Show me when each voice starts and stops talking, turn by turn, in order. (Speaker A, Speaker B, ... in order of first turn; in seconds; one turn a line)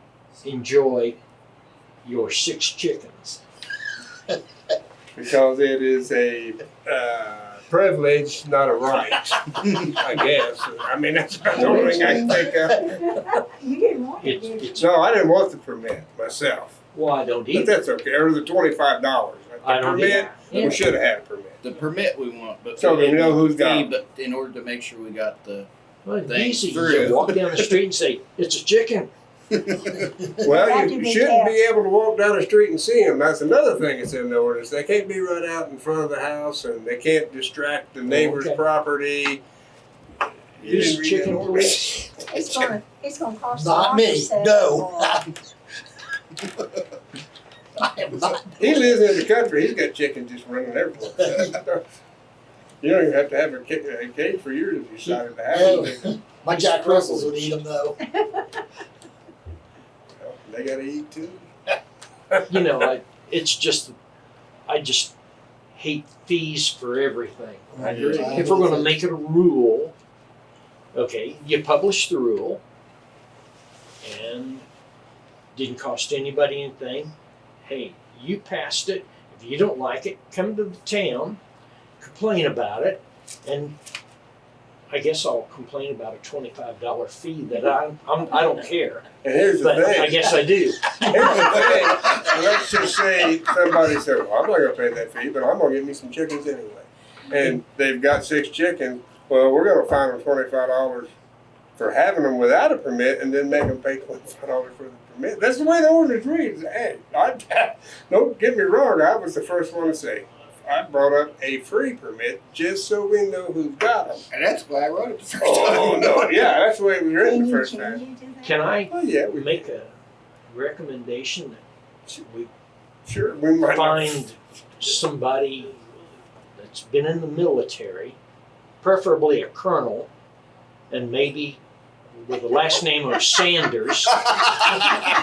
Speaker A: 0.4-1.2
Speaker A: 2.0-3.4
Speaker B: 5.1-13.0
Speaker A: 11.5-12.4
Speaker C: 12.8-14.9
Speaker A: 14.2-14.8
Speaker B: 14.8-16.8
Speaker A: 16.9-17.7
Speaker B: 17.5-21.6
Speaker A: 19.6-20.9
Speaker D: 21.6-25.7
Speaker B: 22.8-23.9
Speaker A: 26.0-29.1
Speaker D: 26.3-27.8
Speaker D: 29.5-30.1
Speaker B: 30.4-39.4
Speaker C: 30.4-31.6
Speaker A: 38.0-38.6
Speaker B: 40.6-42.7
Speaker A: 40.6-42.1
Speaker C: 42.3-45.2
Speaker E: 43.5-45.3
Speaker E: 47.8-49.0
Speaker B: 48.5-51.8
Speaker E: 51.2-51.5
Speaker B: 52.8-57.5
Speaker E: 55.0-58.0
Speaker C: 58.0-58.6
Speaker B: 60.2-61.5
Speaker B: 62.3-62.6
Speaker A: 62.5-64.0
Speaker A: 64.7-65.1
Speaker A: 65.7-69.9
Speaker E: 67.7-69.0
Speaker B: 67.8-68.4
Speaker A: 70.9-72.6
Speaker A: 74.0-74.7
Speaker A: 75.5-81.4
Speaker A: 82.0-83.8
Speaker A: 84.9-89.0
Speaker B: 89.2-90.4
Speaker A: 89.6-91.7
Speaker B: 91.0-101.1
Speaker B: 101.8-114.2
Speaker D: 114.3-116.5
Speaker B: 115.4-118.0
Speaker C: 117.1-118.8
Speaker A: 118.4-119.9
Speaker B: 118.9-119.7
Speaker A: 120.5-122.5
Speaker B: 123.0-124.2
Speaker A: 123.7-125.7
Speaker A: 126.5-128.2
Speaker A: 128.8-130.1
Speaker A: 130.9-131.6
Speaker A: 132.1-134.3